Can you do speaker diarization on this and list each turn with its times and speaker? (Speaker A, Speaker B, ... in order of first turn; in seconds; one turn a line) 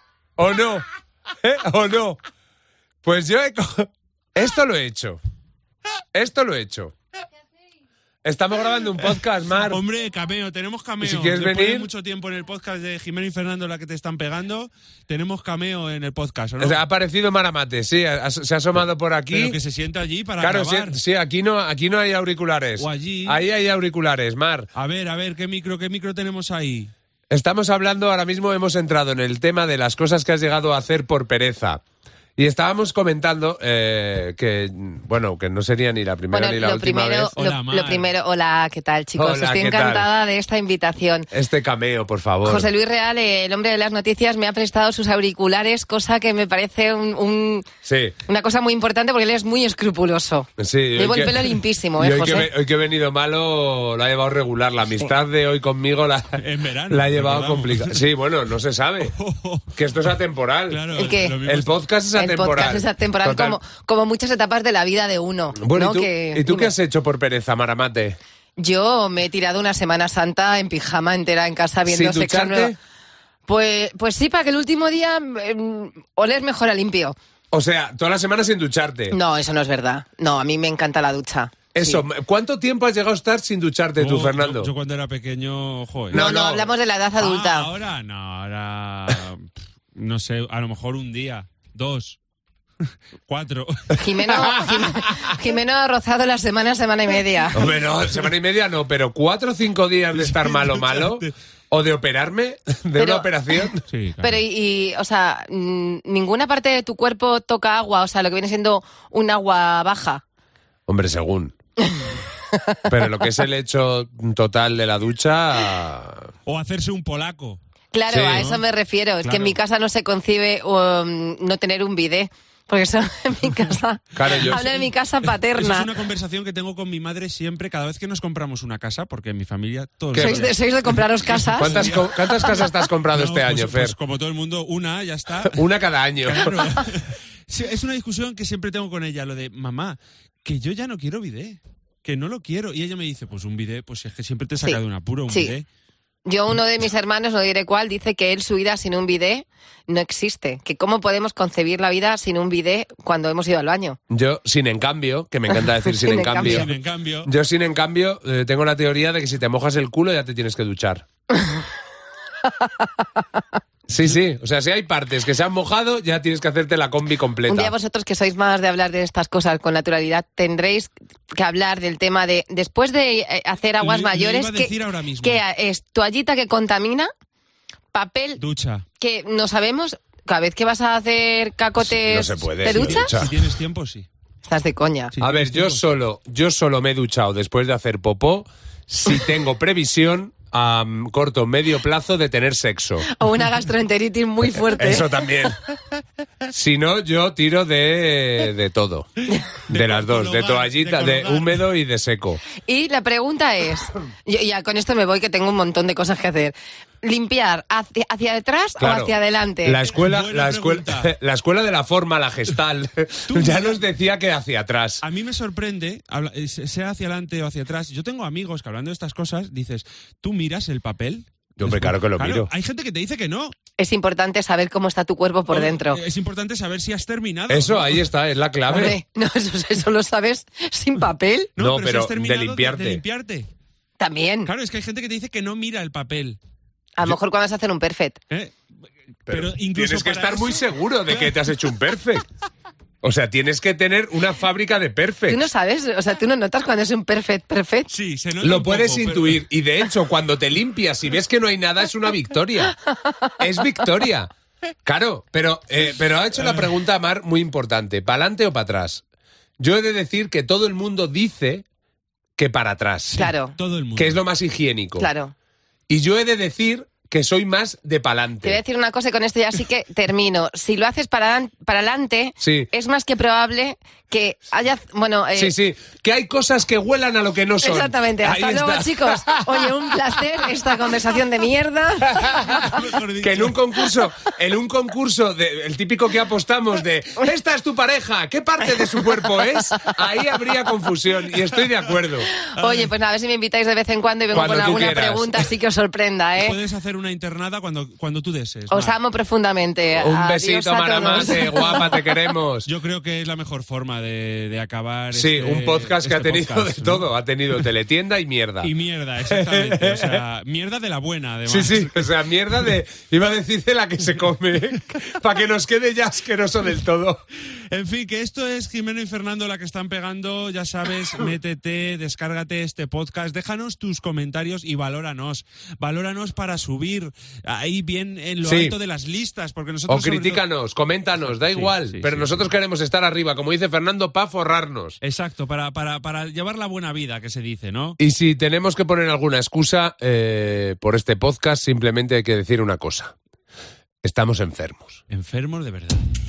Speaker A: 0.4-2.2
Speaker A: 3.0-5.2
Speaker A: 6.1-6.9
Speaker A: 8.2-9.8
Speaker B: 9.6-16.8
Speaker A: 11.0-11.9
Speaker A: 16.6-19.6
Speaker B: 19.3-21.0
Speaker A: 20.4-24.7
Speaker B: 22.8-23.4
Speaker B: 24.7-26.9
Speaker A: 27.3-31.8
Speaker A: 32.4-37.3
Speaker C: 36.3-41.3
Speaker B: 37.3-38.1
Speaker A: 39.2-40.1
Speaker A: 41.3-42.7
Speaker C: 42.4-47.7
Speaker A: 47.8-48.1
Speaker C: 48.2-52.5
Speaker A: 50.6-59.1
Speaker B: 56.4-58.1
Speaker B: 59.0-59.8
Speaker A: 59.7-63.6
Speaker B: 60.7-61.7
Speaker C: 61.0-61.4
Speaker C: 62.1-66.7
Speaker A: 65.6-68.2
Speaker C: 68.6-72.7
Speaker A: 71.8-72.8
Speaker C: 73.5-77.1
Speaker A: 77.5-79.2
Speaker C: 79.1-82.0
Speaker A: 81.7-84.7
Speaker B: 84.0-86.2
Speaker A: 86.1-86.7
Speaker C: 86.1-87.7
Speaker B: 87.2-92.2
Speaker B: 92.9-94.7
Speaker C: 94.0-97.7
Speaker A: 94.3-95.1
Speaker A: 97.5-103.8
Speaker B: 100.2-101.3
Speaker C: 103.0-103.3
Speaker B: 103.9-104.4
Speaker C: 104.2-110.2
Speaker A: 110.9-111.5
Speaker C: 111.8-112.9
Speaker A: 112.9-116.3
Speaker B: 116.5-117.6
Speaker C: 117.9-125.9
Speaker A: 118.1-118.5
Speaker B: 118.2-118.6
Speaker B: 119.2-119.6
Speaker A: 124.2-124.7
Speaker B: 124.2-124.8
Speaker B: 125.5-135.6
Speaker A: 130.1-130.5
Speaker C: 130.2-132.7
Speaker A: 131.6-133.9
Speaker A: 135.4-136.6
Speaker B: 136.2-145.7
Speaker C: 145.3-145.5
Speaker C: 146.2-154.0
Speaker A: 154.1-156.7
Speaker C: 155.6-156.7
Speaker B: 156.3-157.3
Speaker A: 157.2-161.1
Speaker C: 162.4-163.1
Speaker A: 163.9-167.7
Speaker C: 167.5-177.1
Speaker B: 173.8-175.4
Speaker C: 177.9-178.4
Speaker B: 178.4-178.8
Speaker C: 179.0-183.1
Speaker A: 181.8-183.3
Speaker B: 182.7-184.1
Speaker C: 184.4-185.1
Speaker B: 185.1-185.8
Speaker A: 185.2-193.1
Speaker C: 193.1-195.5
Speaker A: 194.6-195.6
Speaker A: 196.5-202.4
Speaker B: 199.7-201.7
Speaker C: 202.6-209.8
Speaker A: 208.8-215.0
Speaker B: 209.9-211.1
Speaker B: 213.3-213.8
Speaker B: 215.0-223.5
Speaker A: 221.6-222.5
Speaker C: 223.8-226.0
Speaker B: 225.5-228.1
Speaker A: 227.5-229.0
Speaker C: 228.7-231.5
Speaker B: 231.6-233.5
Speaker A: 231.6-233.0
Speaker C: 234.0-234.5
Speaker B: 234.4-236.4
Speaker C: 237.0-238.2
Speaker B: 238.3-238.7
Speaker B: 239.2-241.5
Speaker A: 239.3-242.2
Speaker A: 243.0-245.5
Speaker C: 245.3-247.9
Speaker B: 247.9-249.4
Speaker A: 248.4-252.8
Speaker A: 253.4-254.3
Speaker A: 254.8-259.0
Speaker B: 256.3-256.7
Speaker A: 259.6-261.6
Speaker A: 262.4-263.3
Speaker B: 263.1-264.2
Speaker C: 263.2-263.5
Speaker A: 264.0-265.1
Speaker C: 265.0-265.3
Speaker A: 265.9-268.6
Speaker C: 268.4-275.5
Speaker A: 272.4-272.7
Speaker A: 275.3-280.9
Speaker C: 277.6-282.8
Speaker A: 282.0-292.3
Speaker B: 282.3-283.6
Speaker C: 292.4-296.6
Speaker B: 292.5-292.9
Speaker A: 294.3-295.5
Speaker B: 296.4-298.9
Speaker C: 298.7-302.1
Speaker A: 299.9-302.7
Speaker B: 302.6-307.1
Speaker A: 305.1-308.7
Speaker B: 308.6-312.1
Speaker A: 309.2-310.2
Speaker A: 311.5-317.2
Speaker B: 317.5-330.4
Speaker A: 328.4-328.7
Speaker A: 329.9-335.0
Speaker B: 331.3-332.4
Speaker B: 335.0-338.0
Speaker A: 338.0-343.1
Speaker A: 344.0-345.0
Speaker B: 345.1-346.0